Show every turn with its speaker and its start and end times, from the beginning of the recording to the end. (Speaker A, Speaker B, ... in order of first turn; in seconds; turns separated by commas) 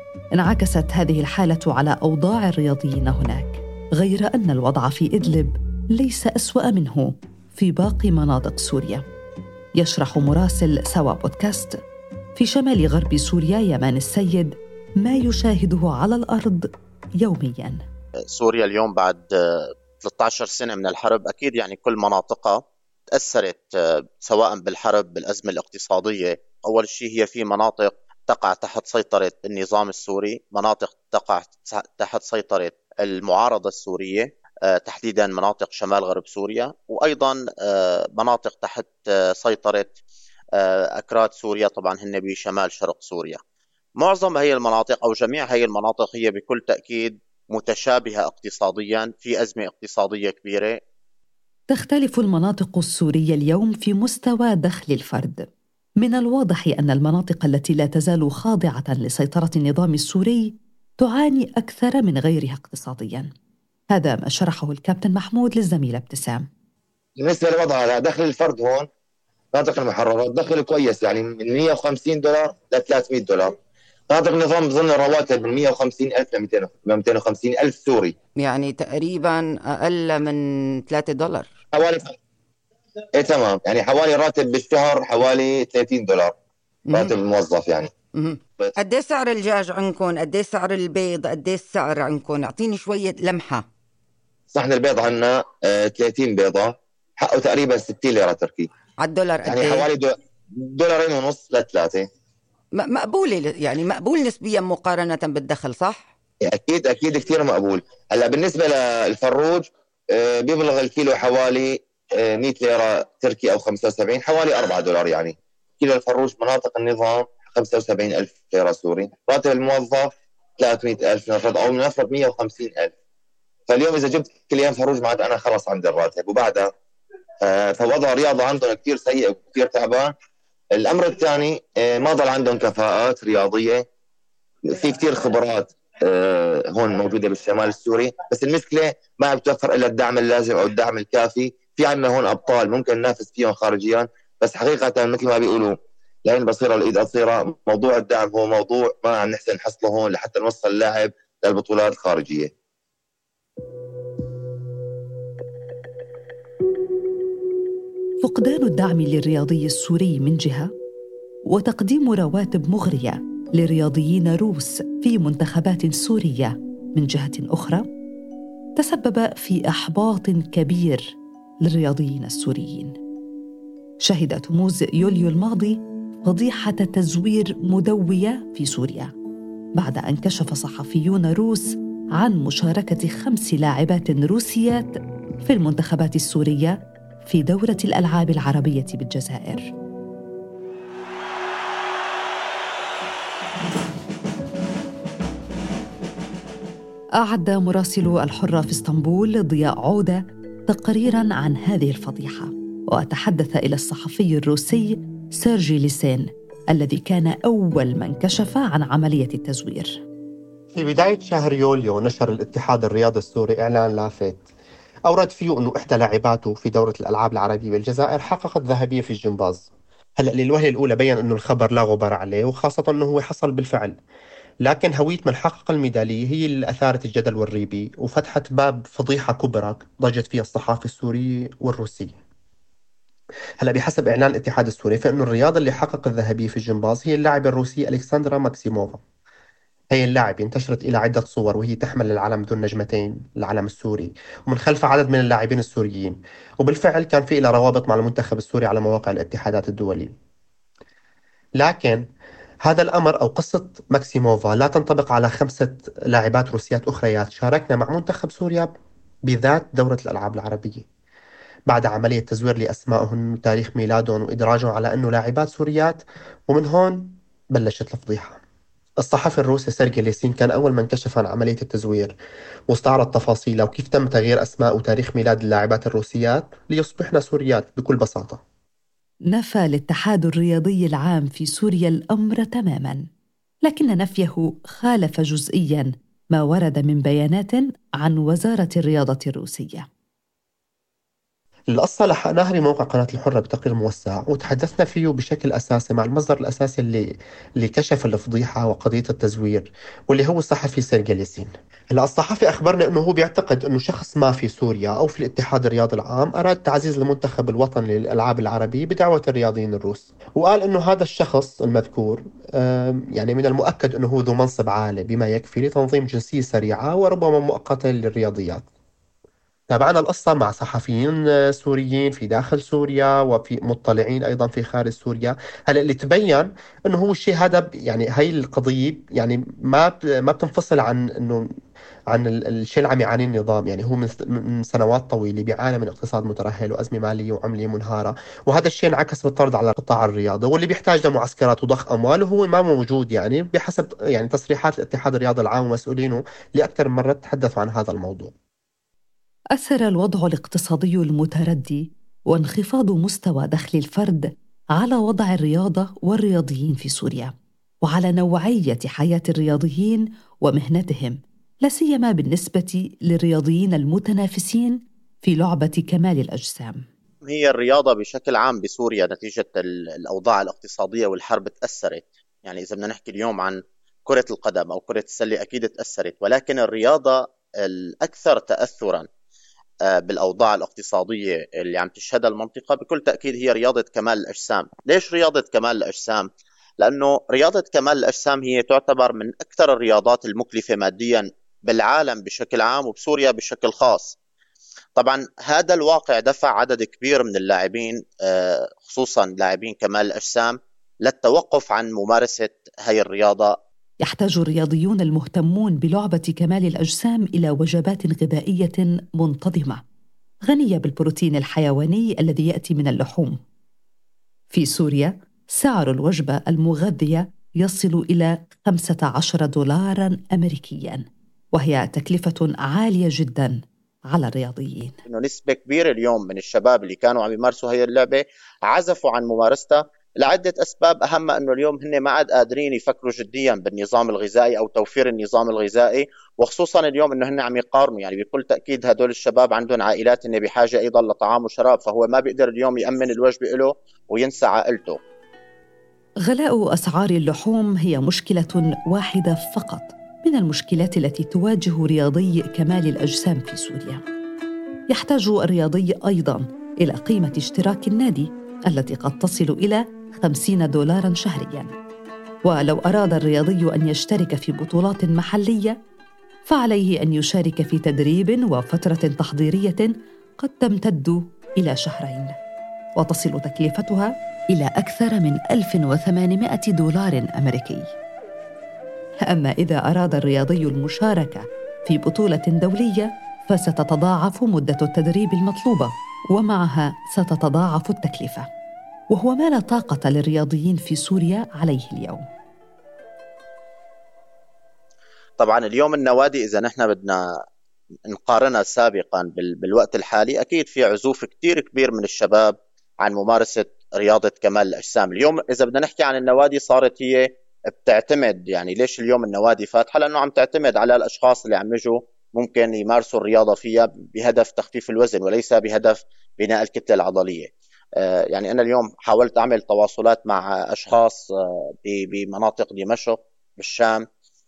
Speaker A: 0.3-9.0, Speaker A: 9.8-11.8, Speaker A: 12.4-16.7, Speaker A: 17.2-17.8, Speaker B: 18.3-22.6, Speaker B: 23.1-40.0, Speaker B: 40.6-43.4, Speaker B: 44.0-50.8, Speaker A: 51.7-55.5, Speaker A: 56.0-63.3, Speaker A: 63.9-66.5, Speaker C: 67.2-68.9, Speaker C: 69.5-73.5, Speaker C: 74.1-78.2, Speaker D: 78.4-81.5, Speaker C: 81.7-82.1, Speaker C: 83.2-86.3, Speaker C: 86.9-87.9, Speaker D: 88.1-93.6, Speaker C: 94.5-98.7, Speaker D: 99.0-99.8, Speaker C: 99.4-102.0, Speaker D: 102.8-106.1, Speaker C: 106.5-122.9, Speaker C: 123.7-126.7, Speaker C: 127.4-130.1, Speaker C: 130.8-133.8, Speaker C: 134.7-152.5, Speaker A: 158.2-160.7, Speaker A: 161.5-167.8, Speaker A: 168.8-171.1, Speaker A: 171.6-172.9, Speaker A: 174.0-179.1, Speaker A: 179.8-184.9, Speaker A: 185.4-189.7, Speaker A: 197.2-210.0, Speaker E: 210.8-214.4, Speaker E: 215.1-219.7, Speaker E: 220.2-224.0, Speaker E: 224.6-232.1, Speaker E: 233.6-239.0, Speaker E: 239.9-250.1, Speaker E: 251.6-252.1, Speaker E: 252.6-258.7, Speaker E: 259.3-260.8, Speaker E: 261.7-268.4, Speaker E: 269.0-272.1, Speaker E: 272.7-278.4, Speaker A: 279.3-283.1, Speaker A: 283.6-289.9, Speaker E: 291.7-318.6, Speaker E: 319.7-331.5, Speaker E: 332.1-348.3, Speaker A: 349.5-366.8, Speaker B: 367.2-379.1, Speaker B: 379.9-386.3, Speaker B: 386.8-394.1, Speaker B: 394.9-403.6, Speaker A: 404.0-409.8, Speaker A: 410.5-413.4, Speaker A: 414.5-424.9, Speaker B: 425.1-445.0, Speaker A: 446.2-454.0, Speaker A: 454.9-461.7, Speaker A: 462.4-465.8, Speaker A: 466.4-472.3, Speaker A: 473.0-477.9, Speaker A: 479.3-488.4, Speaker A: 489.1-492.2, Speaker B: 495.4-497.3, Speaker B: 498.1-524.0